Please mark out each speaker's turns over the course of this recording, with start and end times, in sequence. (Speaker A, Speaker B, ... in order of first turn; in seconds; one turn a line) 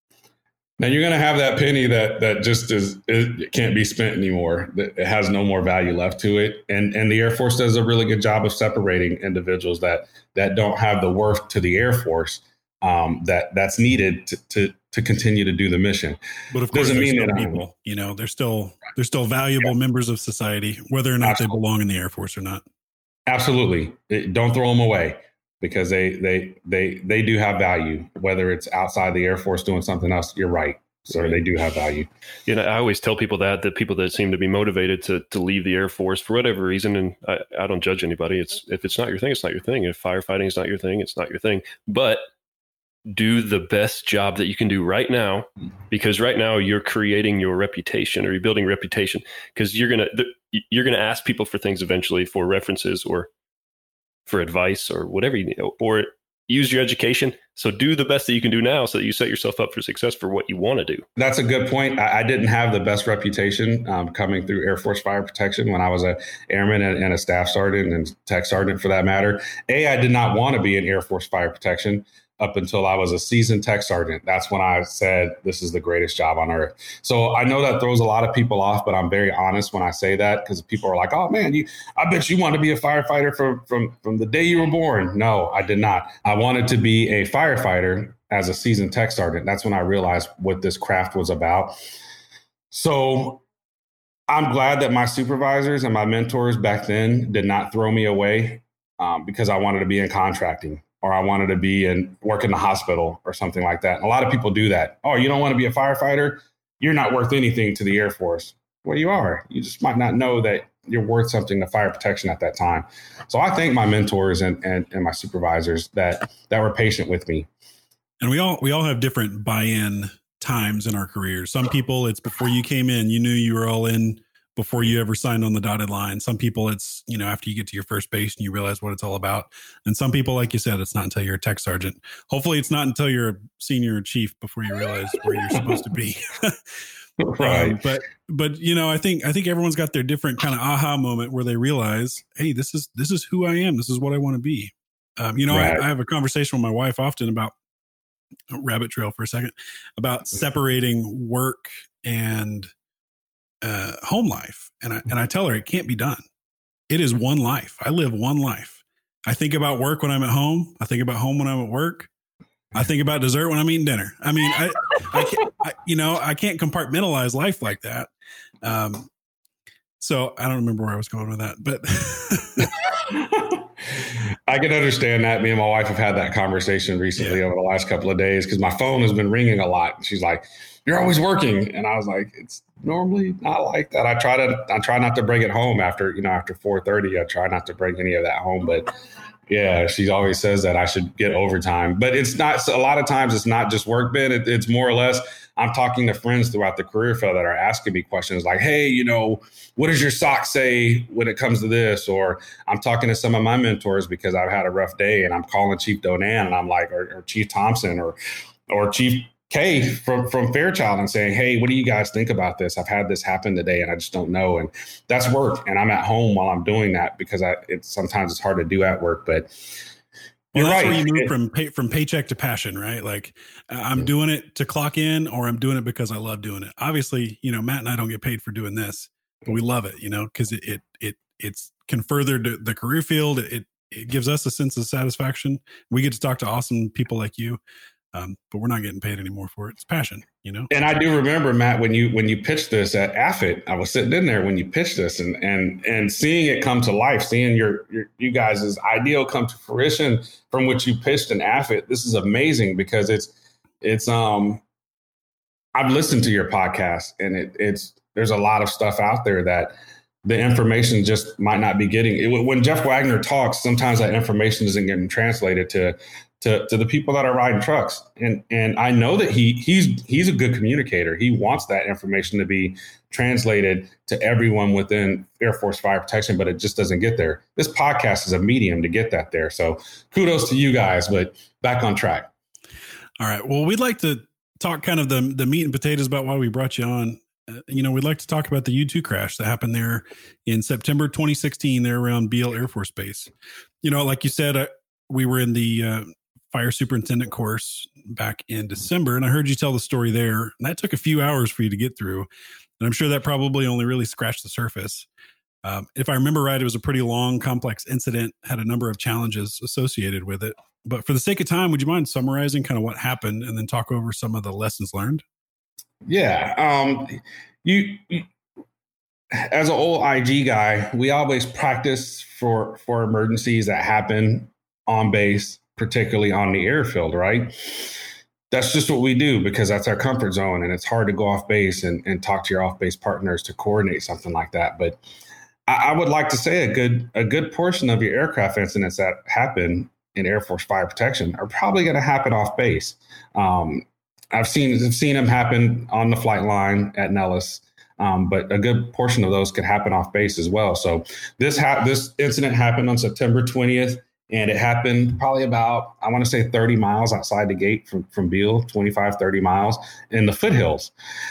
Speaker A: 0.8-16.2
Speaker B: 16.5-22.6
Speaker A: 16.7-17.6
Speaker A: 21.2-21.5
Speaker A: 23.3-32.1
Speaker C: 32.5-42.2
Speaker C: 43.1-53.3
Speaker C: 54.3-61.1
Speaker A: 61.2-91.8
Speaker A: 92.7-93.4
Speaker A: 94.3-117.5
Speaker B: 118.2-136.6
Speaker A: 137.2-137.8
Speaker B: 137.4-147.6
Speaker A: 145.5-145.8
Speaker B: 148.5-152.7
Speaker B: 153.6-156.2
Speaker B: 156.9-162.1
Speaker B: 162.7-168.1
Speaker B: 168.6-169.1
Speaker B: 170.0-172.7
Speaker A: 173.1-188.9
Speaker A: 189.5-208.2
Speaker A: 208.7-219.8
Speaker A: 220.5-221.3
Speaker B: 220.5-237.6
Speaker B: 238.1-240.7
Speaker A: 240.7-254.6
Speaker A: 255.8-282.3
Speaker B: 283.2-293.3
Speaker B: 293.8-302.3
Speaker B: 302.8-305.1
Speaker B: 305.6-315.2
Speaker A: 316.1-318.3
Speaker A: 319.3-335.0
Speaker A: 335.7-360.9